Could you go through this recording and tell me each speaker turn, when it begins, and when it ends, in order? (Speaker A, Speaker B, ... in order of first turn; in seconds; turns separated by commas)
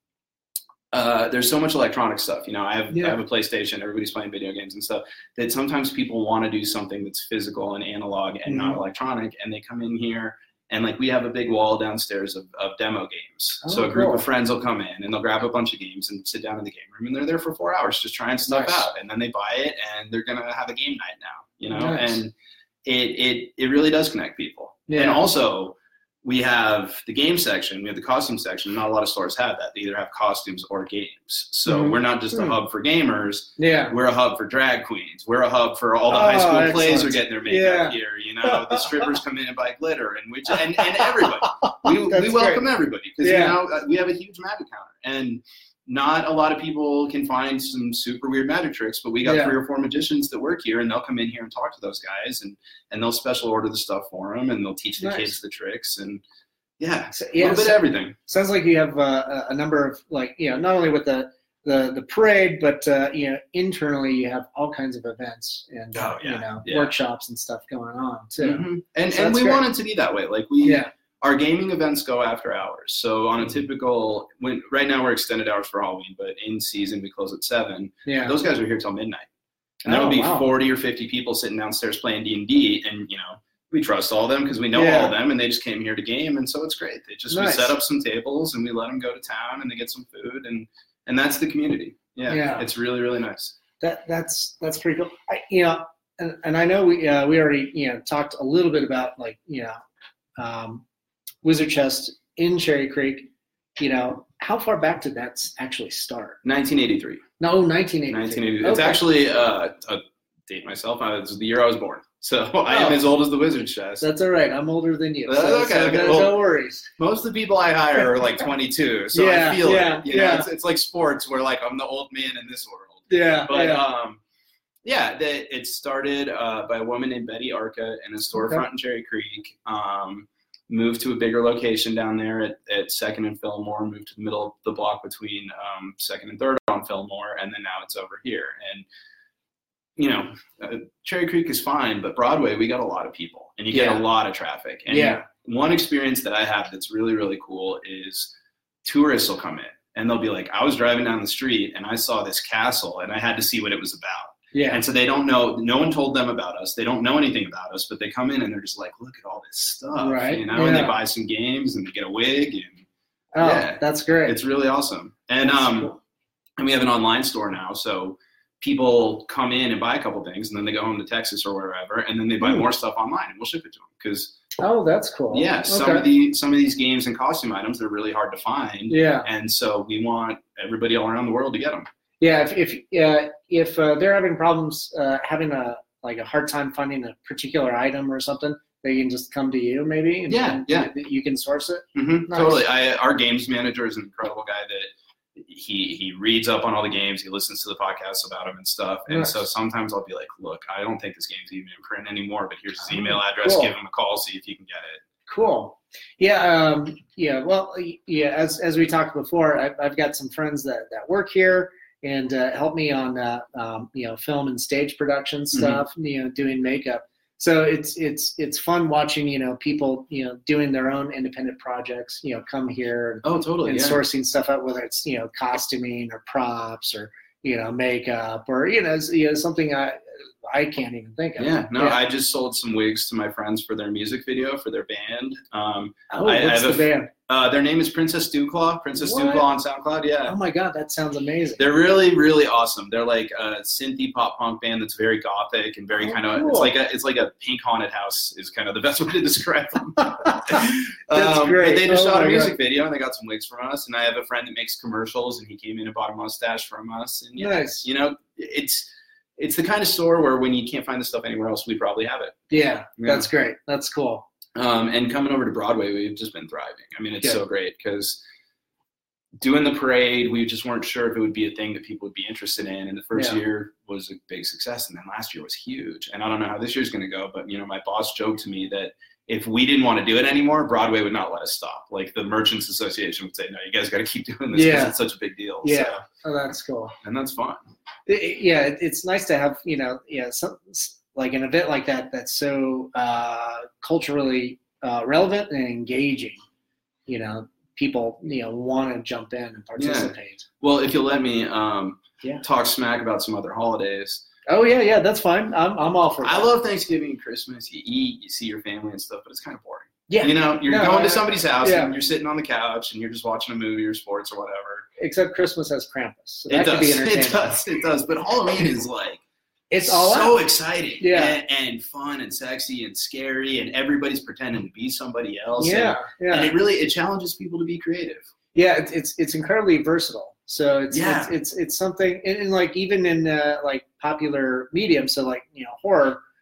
Speaker A: 0.9-22.3, Speaker B: 2.9-3.2, Speaker B: 8.4-8.8, Speaker B: 13.6-14.2, Speaker B: 18.4-18.9, Speaker B: 21.7-22.2, Speaker A: 22.9-56.2, Speaker B: 24.9-25.2, Speaker B: 31.6-32.6, Speaker B: 33.6-33.9, Speaker B: 36.1-39.1, Speaker B: 40.5-42.7, Speaker B: 43.2-43.6, Speaker B: 49.2-49.6, Speaker B: 55.0-55.4, Speaker A: 56.8-58.1, Speaker B: 57.1-69.6, Speaker A: 65.9-66.9, Speaker A: 68.4-79.3, Speaker B: 70.6-70.9, Speaker B: 78.0-78.3, Speaker A: 79.8-93.5, Speaker B: 79.9-80.5, Speaker B: 84.7-85.1, Speaker B: 87.3-87.7, Speaker B: 92.3-92.7, Speaker B: 93.8-99.8, Speaker B: 100.4-100.8, Speaker B: 101.4-106.4, Speaker A: 106.4-107.2, Speaker B: 107.4-109.0, Speaker A: 108.1-114.1, Speaker B: 112.7-113.0, Speaker B: 114.0-116.9, Speaker A: 115.2-116.4, Speaker A: 117.0-124.2, Speaker B: 119.1-120.5, Speaker B: 123.1-123.8, Speaker A: 124.8-138.9, Speaker B: 128.3-128.6, Speaker A: 140.0-148.3, Speaker B: 143.7-144.0, Speaker B: 144.9-145.2, Speaker A: 148.8-162.8, Speaker B: 154.5-154.8, Speaker B: 160.0-161.0, Speaker B: 163.3-164.4, Speaker A: 163.4-165.9, Speaker B: 165.4-166.0, Speaker A: 166.6-174.4, Speaker B: 172.4-172.7, Speaker B: 174.6-176.1, Speaker A: 175.3-181.9, Speaker B: 178.9-179.3, Speaker B: 182.2-192.6, Speaker A: 190.3-190.9, Speaker A: 191.9-205.0, Speaker B: 199.1-199.4, Speaker B: 202.8-203.7, Speaker B: 205.3-232.0, Speaker A: 215.5-215.8, Speaker A: 223.2-224.0, Speaker A: 231.4-240.4, Speaker B: 236.1-237.1, Speaker B: 239.0-239.5, Speaker B: 240.2-241.7, Speaker A: 241.6-262.4, Speaker B: 246.0-246.7, Speaker B: 250.0-252.5, Speaker B: 257.4-257.9, Speaker B: 262.5-264.2, Speaker A: 263.0-263.3, Speaker A: 264.6-268.2, Speaker A: 269.4-286.0, Speaker B: 273.1-273.4, Speaker B: 284.5-284.9, Speaker B: 285.6-286.9, Speaker A: 287.0-287.6, Speaker B: 288.1-296.4, Speaker B: 297.1-300.4, Speaker A: 299.8-304.2, Speaker B: 304.5-306.5, Speaker A: 306.2-314.9, Speaker B: 310.1-311.9, Speaker B: 315.0-317.4, Speaker A: 316.5-319.2, Speaker B: 319.7-320.4, Speaker A: 319.8-328.3, Speaker B: 321.0-321.4, Speaker B: 325.6-326.5, Speaker B: 328.6-336.2, Speaker A: 330.9-331.4